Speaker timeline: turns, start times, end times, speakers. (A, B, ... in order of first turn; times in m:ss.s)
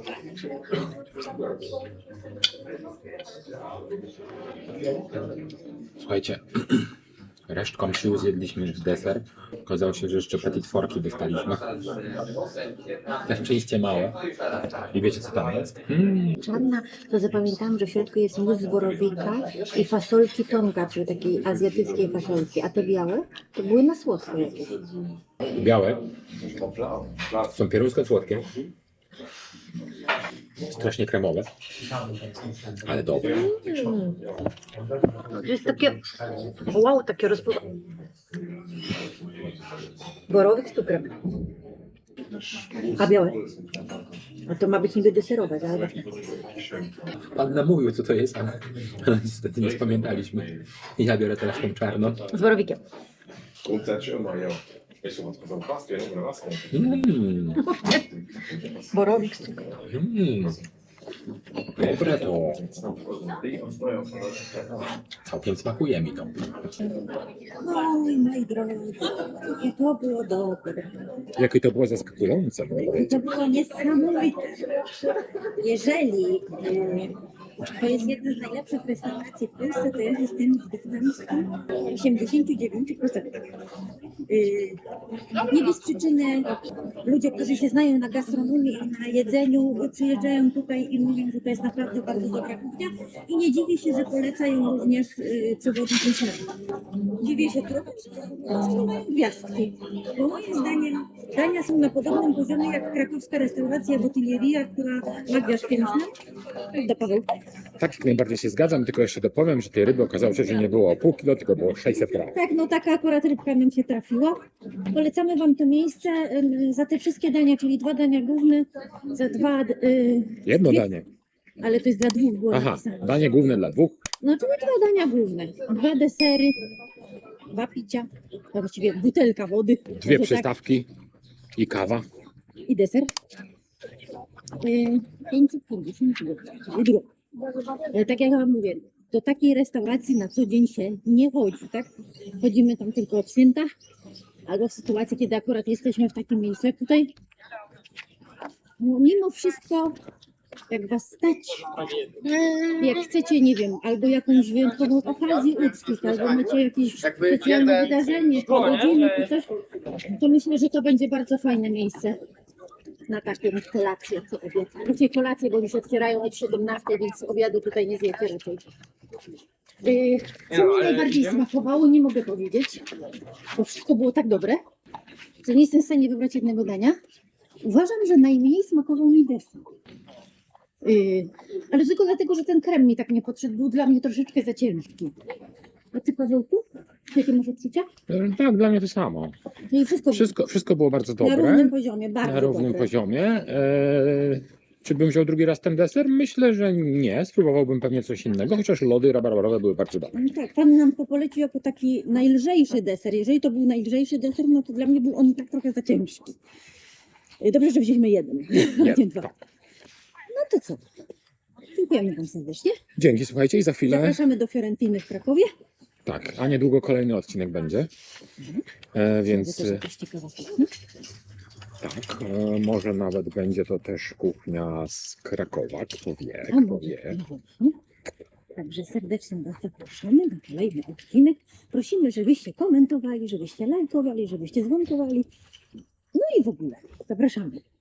0:06.0-0:06.9 A
0:07.5-0:11.6 A
0:13.3-0:14.2 A
0:14.9-0:16.4 A
0:16.4-0:24.7 B
0:25.5-0:26.0 A
0:27.4-0:28.5 A
0:30.7-0:31.5 A
0:32.8-0:33.5 A
0:33.3-0:34.2 B
0:35.3-0:36.0 B
0:36.7-0:37.7 B
0:40.3-0:41.1 B
0:43.0-0:43.4 B
0:44.5-0:46.1 B
0:47.4-0:52.2 A
0:52.3-0:52.8 B
0:53.7-0:56.6 C
0:56.7-0:57.6 A
0:57.6-0:58.0 B
0:58.9-0:59.6 B
0:59.9-1:00.6 A
1:01.8-1:02.6 A
1:05.2-1:06.6 A
1:07.6-1:11.0 B
1:11.4-1:13.2 A
1:12.9-1:14.7 B
1:15.6-1:17.1 B
1:17.7-1:23.3 B
1:24.3-1:24.8 B
1:25.5-1:26.5 B
1:27.0-1:36.4 B
1:37.2-1:46.1 B
1:46.7-1:47.3 B
1:47.8-1:52.4 A
1:52.3-1:54.4 B
1:54.9-2:00.9 B
2:00.4-2:01.1 A
2:01.6-2:03.2 B
2:02.5-2:04.0 A
2:04.2-2:06.6 B
2:07.5-2:10.5 B
2:10.0-2:10.9 A
2:11.6-2:12.1 A
2:12.7-2:13.1 B
2:14.6-2:17.1 B
2:17.8-2:23.7 B
2:24.5-2:27.1 B
2:28.8-2:30.0 B
2:30.7-2:39.5 B
2:40.0-2:42.2 B
2:43.1-2:48.6 B
2:49.8-2:52.8 B
2:53.6-2:54.6 B
2:55.4-2:57.0 B
2:57.6-2:59.6 B
3:00.8-3:05.1 B
3:05.9-3:07.9 B
3:08.1-3:09.4 A
3:09.7-3:10.3 B
3:10.1-3:20.1 A
3:11.2-3:12.9 B
3:20.1-3:26.4 B
3:27.4-3:29.3 B
3:28.6-3:29.3 A
3:30.3-3:30.8 B
3:31.7-3:32.8 B
3:33.0-3:34.2 A
3:33.8-3:35.5 B
3:36.0-3:37.9 A
3:38.9-3:39.9 A
3:39.3-3:40.7 B
3:41.8-3:47.2 A
3:46.5-3:47.8 B
3:48.6-3:55.3 B
3:56.1-3:57.6 B